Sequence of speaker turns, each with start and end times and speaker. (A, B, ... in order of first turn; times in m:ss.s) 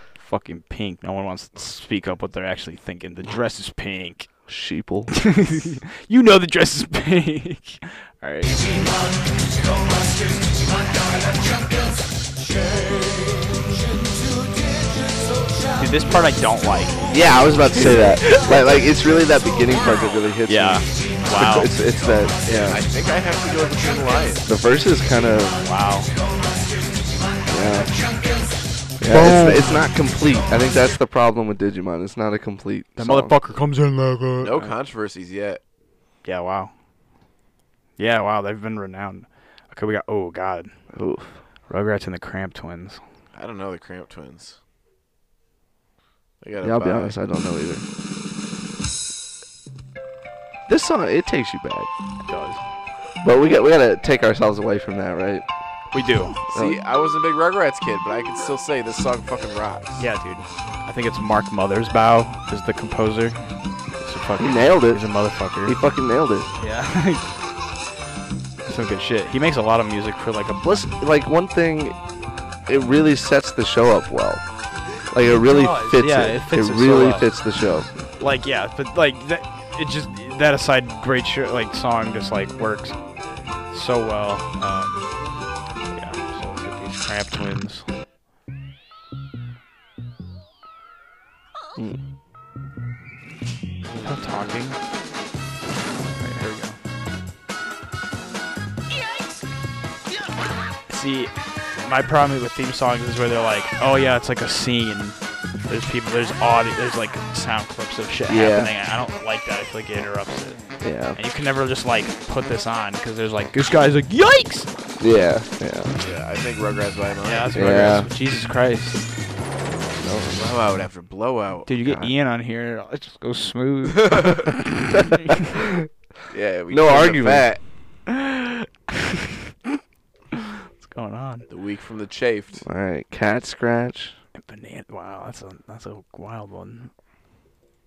0:00.2-0:04.3 A
0:04.5-0:05.1 B
0:05.1-0:08.6 A
0:15.8-0:17.0 A
0:17.1-0:22.8 B
0:17.7-0:18.9 A
0:20.4-0:21.7 A
0:22.4-0:24.4 C
0:24.4-0:25.6 B
0:25.6-0:26.1 A
0:27.5-0:27.9 B
0:29.0-0:33.4 B
0:29.1-0:29.8 A
0:33.0-0:34.7 A
0:34.4-0:35.6 C
0:36.2-0:36.7 A
0:38.0-0:40.7 A
0:40.9-0:41.4 B
0:41.7-0:43.0 A
0:43.3-0:44.6 C
0:46.4-0:47.2 C
0:46.6-0:47.8 B
0:50.7-0:51.9 B
0:52.3-0:52.6 A
0:53.2-0:55.4 B
0:55.9-0:56.4 A
0:56.5-1:00.0 C
1:00.0-1:03.4 A
1:04.0-1:05.8 A
1:04.4-1:05.0 B
1:05.6-1:06.5 B
1:06.6-1:07.2 A
1:08.6-1:10.9 A
1:10.6-1:12.0 B
1:12.7-1:14.4 B
1:15.1-1:17.9 B
1:15.4-1:17.3 A
1:18.2-1:23.0 A
1:23.7-1:25.1 A
1:25.9-1:27.8 A
1:34.0-1:34.8 A
1:36.2-1:36.8 A
1:40.9-1:41.3 A
1:41.8-1:50.6 A
1:48.3-1:48.7 B
1:50.8-1:51.2 B
1:51.1-1:54.7 A
1:55.0-1:55.9 B
1:56.0-1:57.9 C
1:57.2-1:59.0 A
1:57.5-1:58.1 B
2:00.0-2:00.4 B
2:00.3-2:01.7 C
2:01.7-2:05.4 A
2:01.8-2:02.1 B
2:04.0-2:04.5 C
2:05.5-2:05.9 B
2:06.3-2:07.6 C
2:06.7-2:07.5 B
2:08.1-2:09.2 A
2:10.3-2:11.4 A
2:11.5-2:12.6 C
2:12.6-2:14.1 B
2:14.4-2:16.9 A